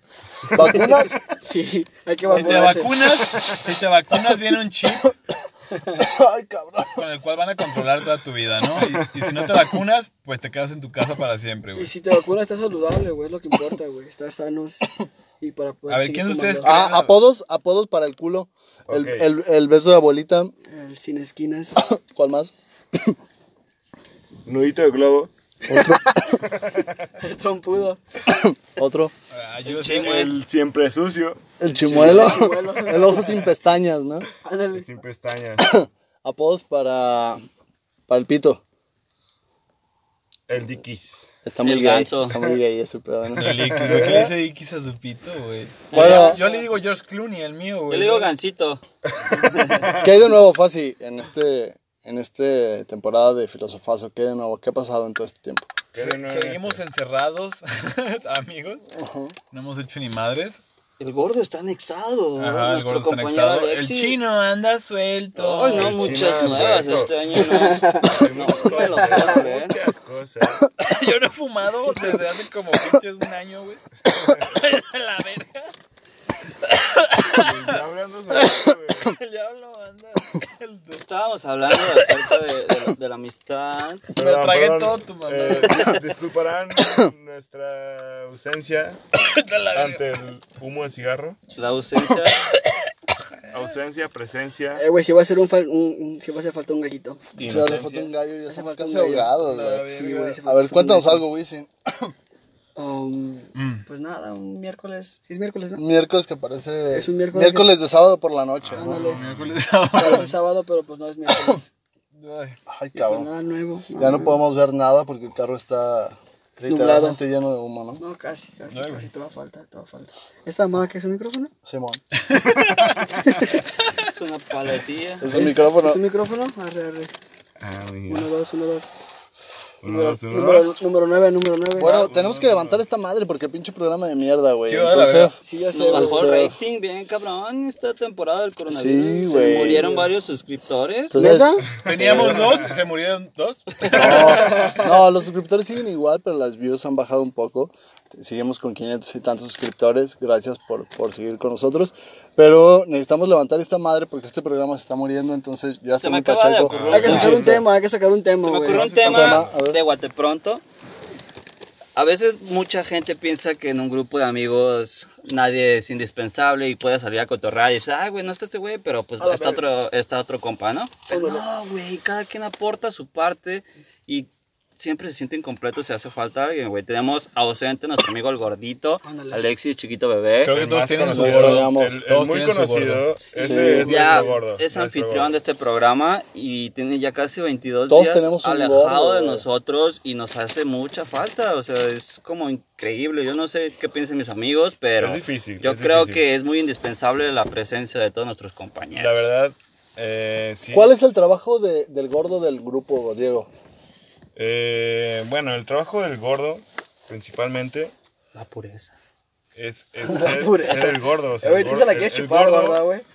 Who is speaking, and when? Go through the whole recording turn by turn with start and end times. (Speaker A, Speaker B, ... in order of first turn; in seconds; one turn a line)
Speaker A: 0.5-1.2
Speaker B: 0.5-3.1
Speaker C: 2.3-5.1
Speaker A: 6.0-7.0
Speaker C: 6.9-11.9
Speaker B: 11.8-14.9
Speaker B: 15.4-16.9
Speaker C: 15.9-17.1
Speaker A: 16.6-20.5
Speaker D: 18.9-19.2
Speaker B: 20.7-21.8
Speaker A: 21.8-23.2
Speaker D: 24.5-25.3
Speaker A: 25.7-26.4
Speaker B: 25.7-26.3
Speaker D: 26.4-27.1
Speaker B: 27.2-28.0
Speaker A: 28.3-29.1
Speaker C: 29.3-30.3
Speaker E: 29.6-30.4
Speaker D: 30.0-31.4
Speaker A: 31.6-34.3
Speaker C: 31.7-32.4
Speaker B: 31.9-33.4
Speaker B: 34.4-34.9
Speaker D: 34.7-35.7
Speaker A: 35.6-37.4
Speaker A: 38.1-38.6
Speaker D: 40.5-41.3
Speaker A: 41.4-44.3
Speaker E: 41.6-42.6
Speaker C: 43.4-48.3
Speaker D: 43.4-44.3
Speaker E: 45.9-46.7
Speaker A: 45.9-46.4
Speaker E: 47.9-48.8
Speaker D: 49.3-50.1
Speaker E: 49.4-49.8
Speaker A: 49.9-55.7
Speaker D: 55.9-56.8
Speaker C: 56.0-58.9
Speaker A: 58.9-59.4
Speaker C: 59.5-60.6
Speaker E: 61.0-64.2
Speaker C: 62.4-66.3
Speaker E: 65.3-69.8
Speaker D: 65.7-70.7
Speaker B: 67.3-69.4
Speaker C: 70.8-75.7
Speaker C: 76.6-77.8
Speaker D: 77.3-79.2
Speaker C: 79.0-81.0
Speaker E: 81.0-84.1
Speaker C: 81.8-82.2
Speaker D: 84.1-89.1
Speaker C: 84.2-86.0
Speaker C: 89.2-90.0
Speaker D: 89.7-91.4
Speaker E: 91.5-92.5
Speaker C: 92.2-92.9
Speaker D: 93.5-94.8
Speaker B: 94.8-97.2
Speaker D: 97.4-98.1
Speaker A: 97.4-102.1
Speaker C: 97.5-97.8
Speaker B: 98.5-101.2
Speaker C: 99.3-100.4
Speaker B: 102.8-105.8
Speaker C: 103.5-103.8
Speaker A: 105.8-109.1
Speaker B: 106.9-107.7
Speaker D: 108.6-109.6
Speaker B: 108.8-109.2
Speaker C: 109.0-110.4
Speaker B: 109.9-111.7
Speaker C: 112.1-112.6
Speaker A: 112.7-113.3
Speaker B: 112.9-114.4
Speaker A: 114.0-118.0
Speaker B: 116.7-117.2
Speaker B: 118.0-121.5
Speaker C: 118.7-119.1
Speaker A: 121.6-122.0
Speaker C: 122.3-122.9
Speaker B: 123.2-123.6
Speaker E: 124.1-125.3
Speaker A: 125.2-126.0
Speaker B: 125.3-127.1
Speaker D: 127.6-128.3
Speaker B: 128.1-128.9
Speaker D: 129.8-130.8
Speaker B: 129.8-132.1
Speaker A: 131.7-135.4
Speaker C: 131.8-132.7
Speaker C: 134.7-135.4
Speaker B: 135.4-136.4
Speaker E: 135.7-141.2
Speaker A: 135.9-136.6
Speaker A: 138.7-139.9
Speaker B: 139.3-140.1
Speaker A: 141.1-142.5
Speaker B: 141.1-141.7
Speaker D: 141.8-142.7
Speaker C: 141.8-144.8
Speaker A: 143.9-157.6
Speaker B: 144.2-144.9
Speaker E: 156.0-157.6
Speaker D: 156.7-157.7
Speaker B: 156.9-159.0
Speaker E: 158.4-160.6
Speaker C: 158.7-159.3
Speaker A: 158.8-159.8
Speaker D: 159.1-159.6
Speaker E: 162.0-180.6
Speaker B: 169.2-169.6
Speaker B: 171.1-171.4
Speaker B: 179.1-179.4
Speaker C: 180.4-183.1
Speaker D: 180.5-185.3
Speaker A: 181.1-182.0
Speaker E: 183.3-199.2
Speaker A: 183.4-184.2
Speaker A: 187.9-189.4
Speaker D: 195.0-196.2
Speaker D: 198.9-200.9
Speaker A: 200.7-203.5
Speaker D: 204.4-207.9
Speaker E: 208.3-208.9
Speaker D: 209.6-212.8
Speaker B: 210.1-213.1